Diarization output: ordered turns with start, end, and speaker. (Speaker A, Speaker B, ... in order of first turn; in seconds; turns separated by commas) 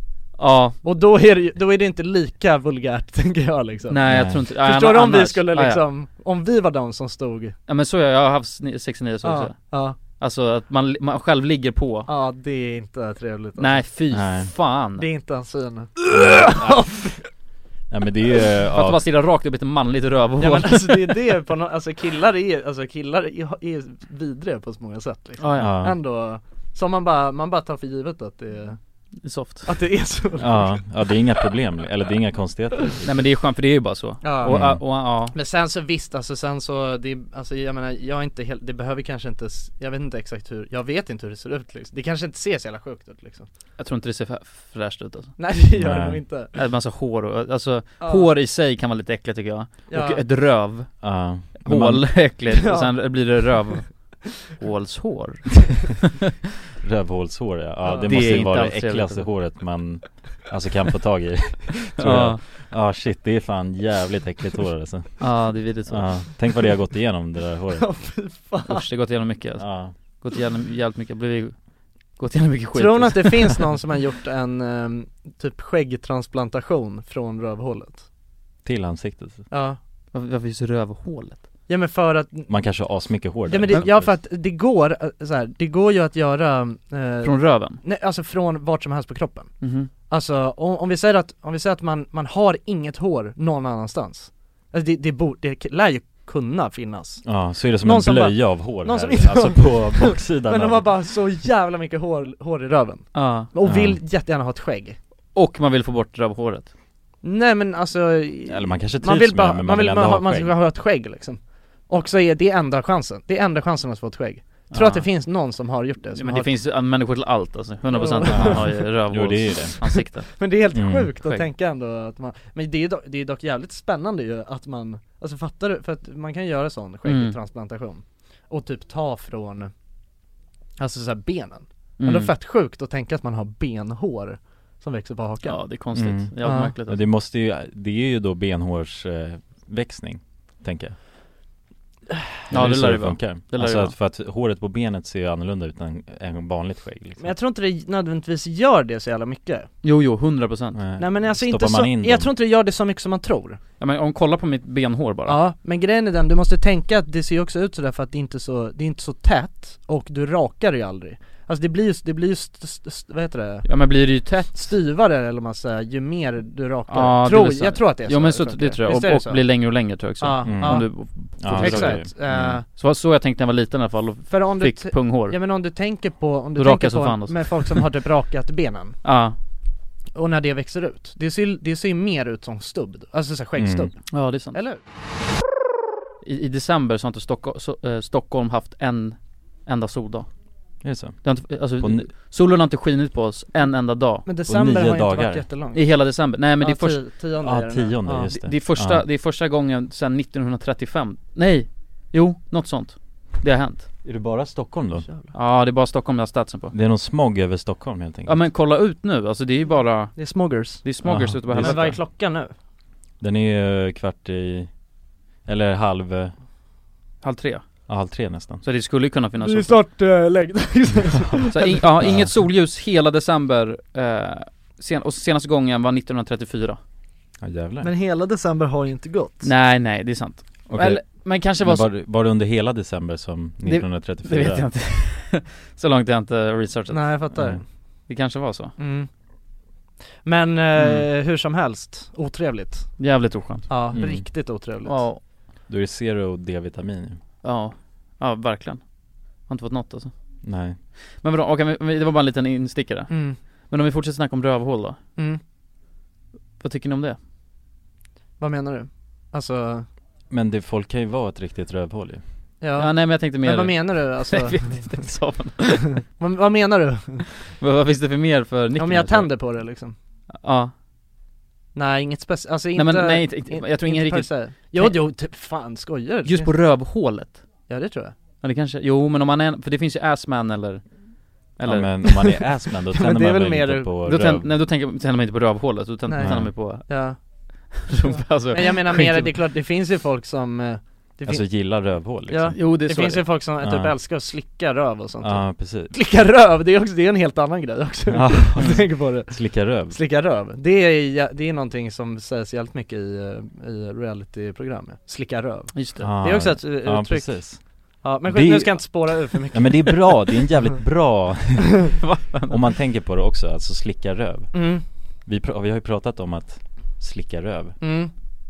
Speaker A: 0.4-0.8, Speaker B: 0.8-7.6, Speaker A: 3.9-5.8, Speaker C: 4.0-4.4, Speaker A: 7.7-9.6, Speaker B: 9.2-10.0, Speaker A: 10.1-12.1, Speaker B: 12.1-13.8, Speaker A: 13.6-15.0, Speaker C: 14.1-14.5, Speaker B: 15.0-17.2, Speaker C: 16.2-16.7, Speaker C: 17.9-19.0, Speaker A: 18.7-21.1, Speaker B: 20.4-28.8, Speaker A: 25.4-25.7, Speaker C: 25.6-26.0, Speaker A: 29.2-29.7, Speaker B: 29.6-30.8, Speaker C: 30.4-33.0, Speaker A: 33.0-35.3, Speaker B: 34.2-34.8, Speaker C: 34.5-34.8, Speaker B: 35.3-43.5, Speaker A: 43.8-45.4, Speaker B: 45.4-46.5, Speaker C: 45.7-46.2, Speaker A: 46.5-51.0, Speaker B: 48.0-48.3, Speaker B: 49.9-50.2, Speaker C: 51.0-52.2, Speaker A: 51.5-53.9, Speaker B: 52.5-53.2, Speaker A: 54.6-55.9, Speaker C: 56.8-67.9, Speaker B: 57.8-58.5, Speaker A: 58.0-59.3, Speaker A: 62.0-62.4, Speaker A: 65.2-66.1, Speaker B: 67.8-68.9, Speaker A: 68.7-71.5, Speaker C: 69.6-69.9, Speaker A: 72.2-73.6, Speaker B: 72.7-78.0, Speaker C: 78.6-79.4, Speaker B: 79.5-79.8, Speaker A: 80.1-81.4, Speaker B: 81.7-82.5, Speaker C: 82.5-84.1, Speaker B: 83.5-105.0, Speaker A: 87.2-87.8, Speaker A: 89.6-89.9, Speaker C: 97.2-100.9, Speaker A: 103.1-103.5, Speaker C: 103.6-104.0, Speaker A: 105.3-106.7, Speaker B: 107.2-116.5, Speaker C: 108.5-110.5, Speaker A: 114.7-115.1, Speaker A: 116.1-120.3, Speaker B: 117.9-118.9, Speaker C: 118.3-119.9, Speaker B: 120.4-129.7, Speaker C: 120.7-121.1, Speaker A: 127.0-127.3, Speaker B: 130.8-135.7, Speaker A: 132.0-132.3, Speaker A: 135.4-137.0, Speaker C: 135.9-141.0, Speaker B: 136.4-136.7, Speaker A: 142.5-143.9, Speaker C: 142.5-147.3, Speaker B: 147.2-149.7, Speaker A: 149.8-150.8, Speaker C: 150.7-152.3, Speaker B: 151.0-153.6, Speaker A: 153.8-155.4, Speaker B: 155.2-163.7, Speaker A: 163.6-164.7, Speaker B: 164.5-169.5, Speaker A: 166.9-175.4, Speaker B: 170.2-172.6, Speaker C: 170.4-172.6, Speaker B: 174.3-179.0, Speaker A: 176.6-177.8, Speaker A: 179.0-179.3, Speaker B: 180.1-184.8, Speaker C: 183.6-183.9, Speaker A: 184.1-184.6, Speaker A: 186.2-190.3, Speaker C: 190.8-192.1, Speaker A: 191.2-194.2, Speaker B: 194.2-198.3, Speaker C: 194.5-195.4, Speaker A: 195.7-197.0, Speaker C: 197.4-199.0, Speaker A: 198.3-203.9, Speaker C: 204.0-205.1, Speaker B: 205.1-205.3, Speaker A: 205.3-206.7, Speaker C: 206.7-208.4, Speaker A: 208.2-212.0, Speaker B: 210.2-210.8, Speaker C: 211.0-212.0, Speaker B: 211.5-212.5, Speaker C: 213.2-214.7, Speaker C: 215.4-216.3, Speaker A: 217.2-217.6, Speaker C: 217.9-218.6, Speaker A: 218.6-219.8, Speaker B: 219.4-221.8, Speaker A: 221.5-226.8, Speaker C: 222.0-222.3, Speaker C: 227.4-227.9, Speaker B: 227.8-229.5, Speaker A: 229.4-231.9, Speaker C: 230.7-234.7, Speaker A: 233.6-237.2, Speaker B: 236.9-237.6, Speaker C: 237.3-237.6, Speaker A: 238.1-238.7, Speaker B: 238.8-239.1, Speaker B: 240.2-243.0, Speaker A: 243.0-244.2, Speaker B: 243.7-245.0, Speaker C: 243.9-244.2, Speaker A: 244.8-245.2, Speaker C: 245.7-247.2, Speaker A: 247.4-248.9, Speaker A: 249.4-250.1, Speaker C: 250.4-250.8, Speaker A: 251.2-255.0, Speaker B: 253.1-253.4, Speaker A: 256.6-257.2, Speaker B: 258.4-259.9, Speaker C: 260.3-262.2, Speaker B: 262.6-265.0, Speaker A: 262.8-266.0, Speaker B: 266.0-267.3, Speaker A: 267.6-269.3, Speaker B: 268.8-269.9, Speaker A: 270.3-270.7, Speaker B: 271.7-276.5, Speaker A: 272.8-275.0, Speaker A: 276.2-277.4, Speaker B: 277.7-278.1, Speaker A: 278.4-280.8, Speaker A: 281.5-281.9, Speaker C: 281.6-284.5, Speaker B: 282.0-283.9, Speaker A: 284.0-287.1, Speaker B: 286.1-287.2, Speaker C: 286.2-286.5, Speaker B: 287.7-310.3, Speaker A: 287.9-289.3, Speaker C: 291.2-292.6, Speaker A: 292.5-293.3, Speaker C: 293.6-293.9, Speaker C: 295.2-295.9, Speaker C: 298.1-300.0, Speaker A: 305.7-306.1, Speaker C: 306.0-307.6, Speaker C: 308.2-314.6, Speaker A: 312.0-312.5, Speaker B: 314.5-314.8, Speaker C: 315.2-317.8, Speaker B: 317.8-318.1